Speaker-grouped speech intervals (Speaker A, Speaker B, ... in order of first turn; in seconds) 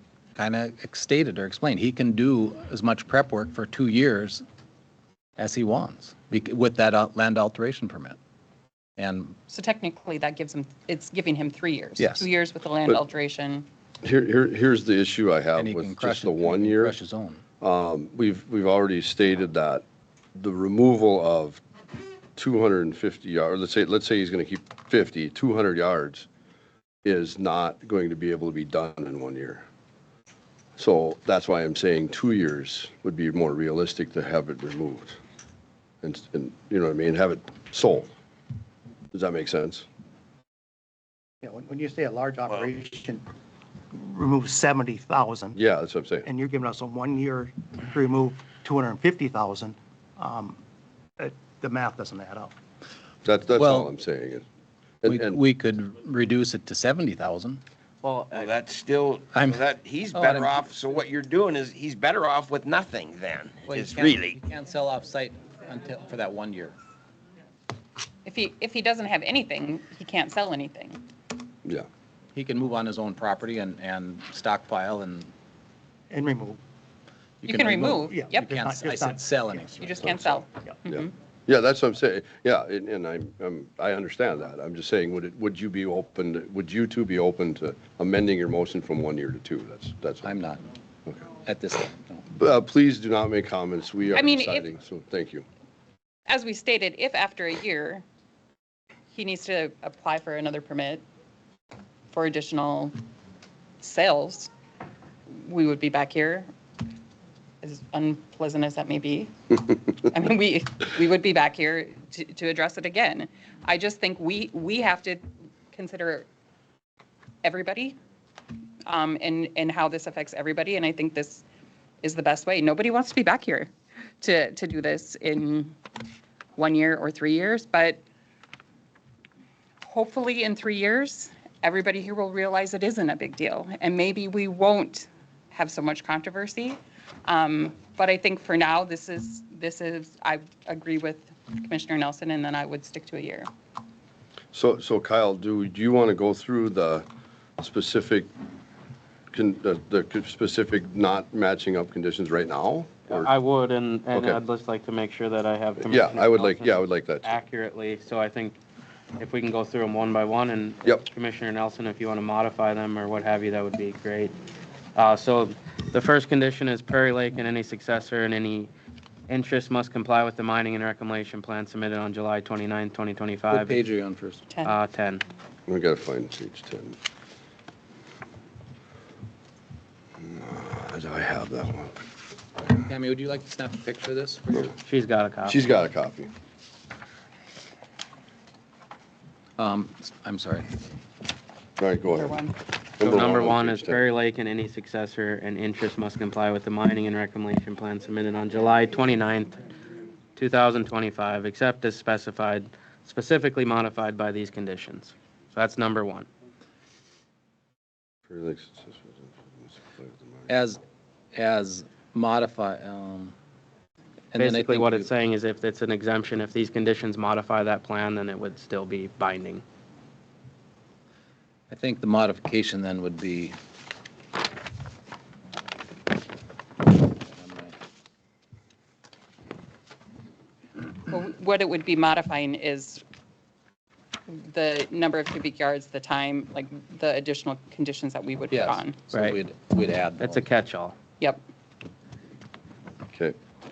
Speaker A: 0.4-4.4, 5.4-8.2, 9.0-9.4, 12.0-12.3, 15.6-17.4, 53.6-53.9, 55.0-57.6, 59.3-59.6, 60.1-60.6, 63.7-66.8, 72.3-75.3, 77.4-80.4, 90.2-90.6, 91.4-92.2, 173.5-174.4, 182.8-184.7, 189.6-190.7, 210.5-210.8, 211.3-213.3, 214.3-215.1, 221.7-223.6, 227.3-227.7, 238.5-240.4
Speaker B: 9.5-13.7, 68.2-71.0, 77.9-78.2, 80.0-81.1, 94.1-94.8, 96.3-98.0, 99.1-101.0, 102.1-103.0, 103.8-104.5, 105.3-106.5, 107.6-116.3, 117.4-118.0, 118.9-121.4, 122.0-123.7, 124.2-125.8, 126.6-128.0, 129.8-143.5, 192.1-192.5, 231.3-233.0, 234.3-239.0
Speaker C: 14.0-17.0, 17.6-19.8, 20.4-21.6, 22.4-26.3, 27.0-29.6, 30.8-35.2, 36.0-38.1, 39.1-39.9, 45.5-46.3, 53.2-54.4, 55.0-55.4, 80.9-90.3, 92.3-95.5, 144.5-147.1, 147.6-148.3, 149.3-153.3, 154.1-154.4, 155.8-157.3, 175.7-177.0, 180.2-181.9, 185.5-186.3, 191.8-192.5, 193.0-194.0, 208.3-210.5, 243.1-243.4
Speaker D: 41.4-43.2, 43.9-45.6, 46.2-50.6, 51.2-52.5, 76.1-76.6, 77.5-80.8
Speaker E: 58.0-58.5, 153.1-158.6, 159.2-164.4, 164.9-168.7, 169.3-173.8, 174.7-175.2, 184.8-185.6, 193.0-199.6, 200.4-206.3, 214.4-219.6, 239.1-239.4, 240.2-240.9
Speaker F: 58.3-64.4